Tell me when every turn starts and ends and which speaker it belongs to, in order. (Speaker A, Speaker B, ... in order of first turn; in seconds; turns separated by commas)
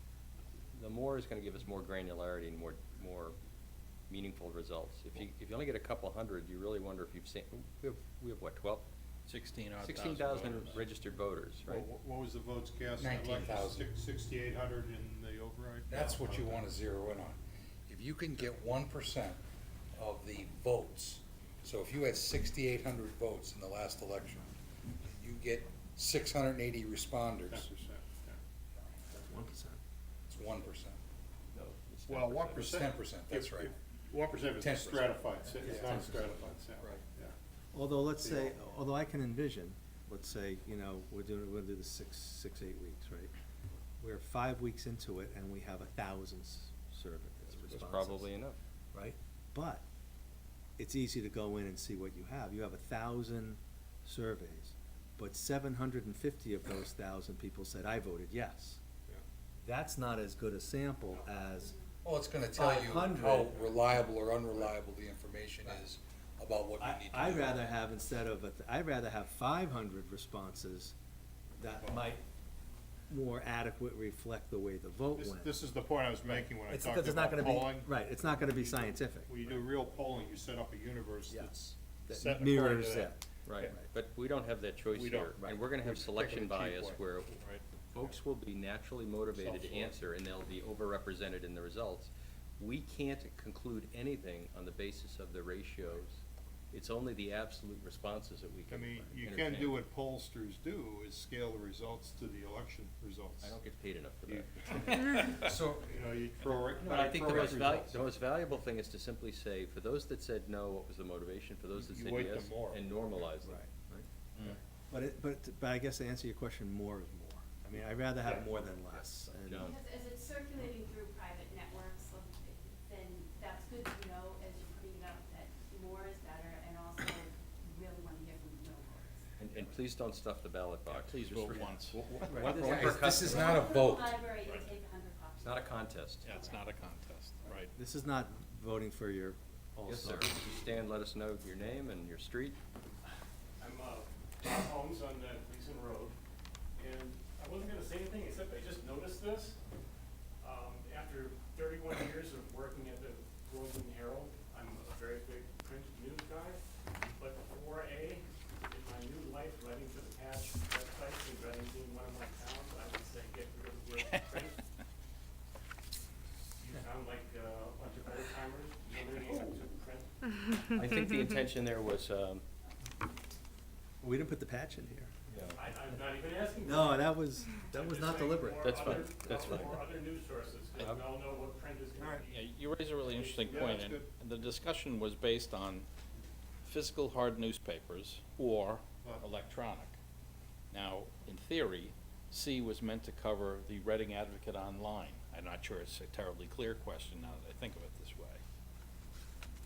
Speaker A: 0.7-3.4, Speaker A: 4.1-8.8, Speaker B: 9.3-10.8, Speaker A: 9.8-11.9, Speaker C: 11.7-16.6, Speaker D: 13.0-13.8, Speaker D: 15.9-19.4, Speaker D: 19.9-27.7, Speaker C: 27.5-28.4, Speaker E: 29.1-29.8, Speaker D: 30.3-31.0, Speaker A: 31.5-32.8, Speaker C: 32.1-37.3, Speaker D: 32.5-33.7, Speaker D: 34.6-36.3, Speaker E: 35.6-36.4, Speaker A: 35.6-36.3, Speaker E: 37.7-43.3, Speaker C: 38.2-38.5, Speaker E: 44.0-48.3, Speaker A: 47.5-48.6, Speaker E: 48.9-49.8, Speaker E: 50.8-58.8, Speaker E: 59.6-61.8, Speaker D: 62.0-67.7, Speaker E: 62.5-63.8, Speaker E: 66.8-70.9, Speaker E: 71.6-72.2, Speaker C: 71.8-72.1, Speaker E: 73.1-75.5, Speaker C: 75.2-83.8, Speaker E: 76.6-79.5, Speaker E: 82.1-83.8, Speaker A: 83.5-99.8, Speaker C: 84.9-87.0, Speaker C: 89.3-90.0, Speaker C: 98.7-103.6, Speaker A: 103.4-104.9, Speaker C: 104.3-104.5, Speaker B: 104.9-105.5, Speaker D: 105.4-105.9, Speaker C: 105.8-108.0, Speaker A: 106.8-113.6, Speaker D: 107.3-107.6, Speaker C: 111.7-112.8, Speaker E: 113.4-114.1, Speaker E: 114.9-119.7, Speaker A: 118.2-119.8, Speaker F: 119.6-129.3, Speaker A: 129.4-133.7, Speaker B: 130.8-132.0, Speaker E: 132.3-133.3, Speaker D: 132.5-134.2, Speaker F: 133.2-136.7, Speaker B: 134.4-134.7, Speaker A: 135.4-136.3, Speaker B: 136.2-137.7, Speaker E: 137.8-140.4, Speaker A: 139.8-142.6, Speaker G: 143.6-146.2, Speaker G: 146.8-149.6, Speaker G: 150.4-156.6, Speaker G: 157.1-164.6, Speaker G: 166.6-170.2, Speaker A: 170.7-172.4, Speaker E: 174.0-175.2, Speaker A: 175.3-175.6, Speaker G: 175.5-182.5, Speaker E: 176.6-179.7, Speaker A: 178.6-179.8, Speaker E: 182.0-182.2, Speaker B: 182.3-185.9, Speaker G: 183.0-183.8, Speaker C: 183.5-184.1, Speaker B: 186.6-189.9, Speaker B: 190.7-198.4